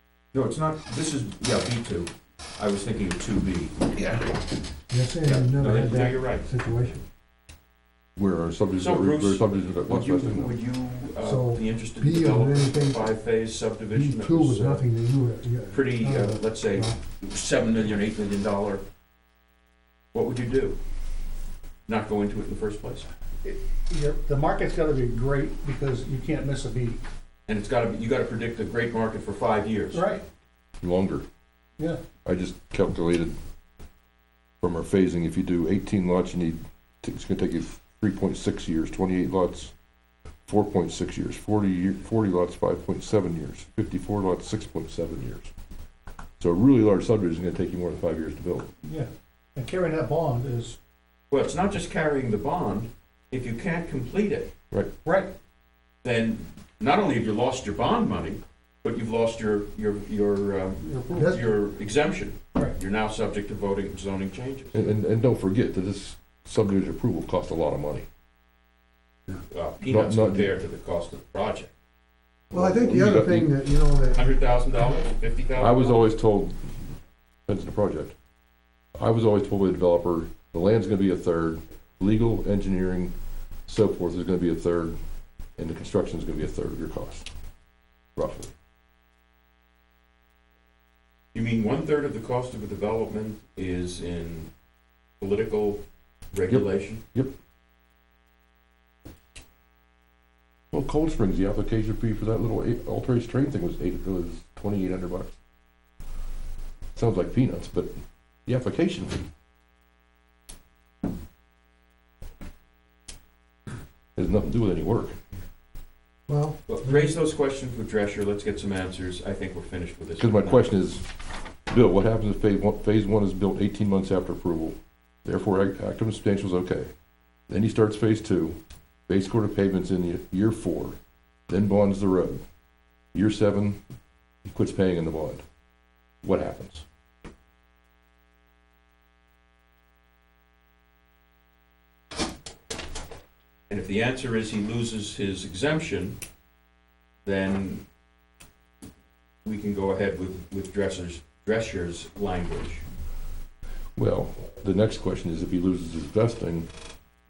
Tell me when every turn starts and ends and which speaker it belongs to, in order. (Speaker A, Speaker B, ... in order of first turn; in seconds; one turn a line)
Speaker A: 0.3-4.2
Speaker B: 4.9-7.0
Speaker A: 5.2-6.5
Speaker C: 8.2-10.5
Speaker A: 8.8-14.8
Speaker B: 11.2-13.1
Speaker B: 13.9-17.0
Speaker A: 15.7-18.8
Speaker A: 20.1-20.8
Speaker A: 21.9-23.1
Speaker D: 23.4-27.0
Speaker A: 27.5-30.0
Speaker D: 29.9-30.2
Speaker C: 30.8-31.2
Speaker C: 32.2-33.4
Speaker C: 34.6-39.7
Speaker C: 40.5-45.5
Speaker C: 46.4-48.7
Speaker D: 48.8-50.8
Speaker A: 51.3-54.5
Speaker D: 55.0-55.3
Speaker A: 56.0-64.9
Speaker D: 60.9-61.5
Speaker B: 61.0-61.4
Speaker C: 64.7-68.1
Speaker A: 69.5-71.7
Speaker C: 69.9-70.5
Speaker B: 72.5-74.4
Speaker C: 72.5-73.5
Speaker A: 74.1-76.1
Speaker C: 75.6-76.8
Speaker C: 77.5-78.1
Speaker C: 79.0-83.1
Speaker C: 83.7-85.0
Speaker C: 85.6-87.3
Speaker C: 88.2-88.5
Speaker A: 91.3-94.5
Speaker A: 95.2-95.8
Speaker A: 96.3-97.0
Speaker C: 96.5-97.3
Speaker C: 100.7-105.3
Speaker C: 107.0-107.9
Speaker C: 108.5-109.3
Speaker C: 114.2-115.2
Speaker B: 116.3-117.1
Speaker A: 116.7-120.7
Speaker C: 120.2-121.0
Speaker C: 121.7-126.9
Speaker C: 127.5-128.6
Speaker C: 129.1-131.0
Speaker C: 131.5-132.4
Speaker C: 133.1-133.8
Speaker C: 134.4-135.4
Speaker C: 136.2-136.8
Speaker A: 143.7-146.2
Speaker A: 147.2-147.8
Speaker A: 149.4-152.8
Speaker C: 154.0-156.7